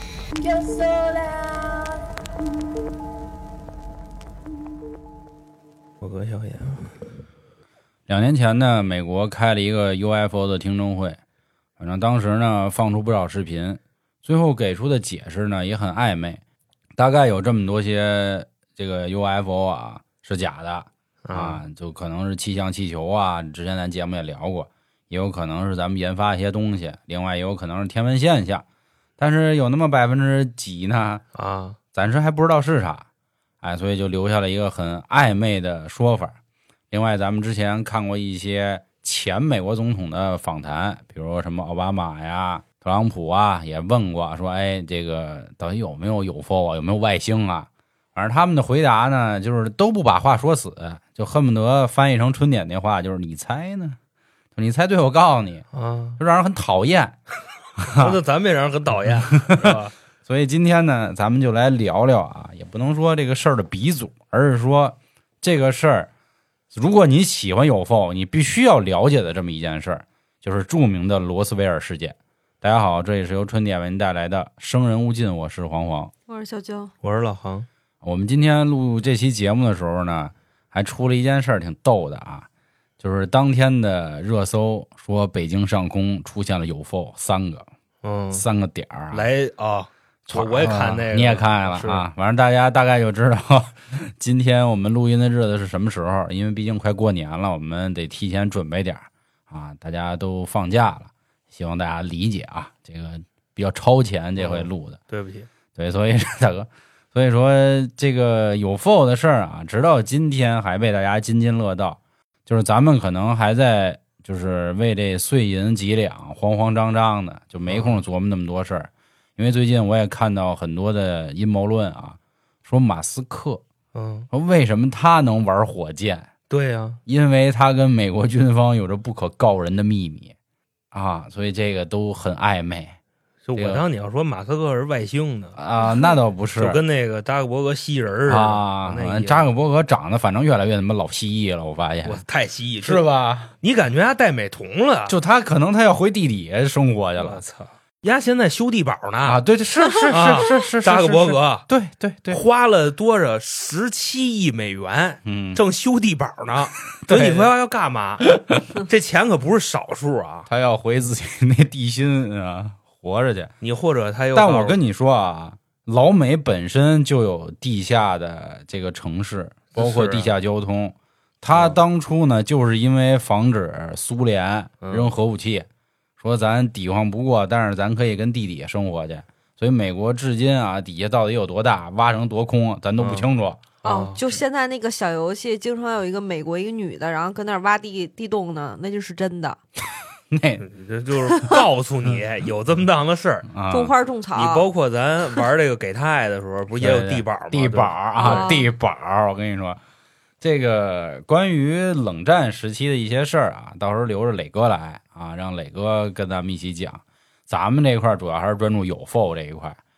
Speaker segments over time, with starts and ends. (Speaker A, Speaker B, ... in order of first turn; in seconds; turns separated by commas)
Speaker A: 6.0-7.0, Speaker B: 8.1-11.2, Speaker B: 11.8-16.4, Speaker B: 17.0-28.6, Speaker A: 21.2-21.6, Speaker B: 29.2-31.2, Speaker A: 31.4-31.8, Speaker B: 31.9-33.1, Speaker B: 33.6-36.4, Speaker B: 36.9-54.0, Speaker B: 54.5-55.6, Speaker A: 55.7-56.2, Speaker B: 56.2-57.2, Speaker B: 57.8-58.2, Speaker A: 58.0-59.9, Speaker B: 59.1-66.1, Speaker B: 66.7-76.1, Speaker C: 76.3-76.9, Speaker A: 77.0-77.7, Speaker B: 78.0-82.5, Speaker B: 83.0-87.7, Speaker A: 88.0-88.5, Speaker B: 88.3-89.2, Speaker A: 89.1-92.0, Speaker B: 90.3-105.0, Speaker A: 104.4-105.5, Speaker B: 105.8-123.6, Speaker A: 117.7-118.0, Speaker A: 123.9-124.3, Speaker B: 124.3-126.3, Speaker A: 126.5-127.0, Speaker B: 127.1-130.3, Speaker B: 130.9-133.0, Speaker A: 133.5-135.6, Speaker B: 133.6-133.8, Speaker B: 135.6-136.8, Speaker A: 136.6-139.5, Speaker B: 138.3-142.2, Speaker A: 142.1-143.0, Speaker B: 142.8-143.5, Speaker A: 143.6-145.2, Speaker B: 145.1-147.4, Speaker A: 147.2-149.4, Speaker B: 149.2-152.4, Speaker A: 150.1-151.7, Speaker A: 152.3-160.5, Speaker B: 155.2-155.6, Speaker B: 157.0-157.5, Speaker B: 158.2-158.6, Speaker B: 160.5-163.5, Speaker A: 163.6-164.8, Speaker B: 164.3-175.7, Speaker A: 169.7-170.3, Speaker A: 171.5-171.8, Speaker A: 174.8-175.1, Speaker B: 176.2-183.7, Speaker A: 183.0-183.3, Speaker C: 183.8-189.6, Speaker A: 183.8-184.2, Speaker B: 190.3-190.7, Speaker A: 190.6-193.5, Speaker B: 193.5-193.9, Speaker C: 193.7-194.7, Speaker A: 194.3-198.5, Speaker B: 196.8-199.8, Speaker C: 198.2-198.7, Speaker B: 200.4-209.8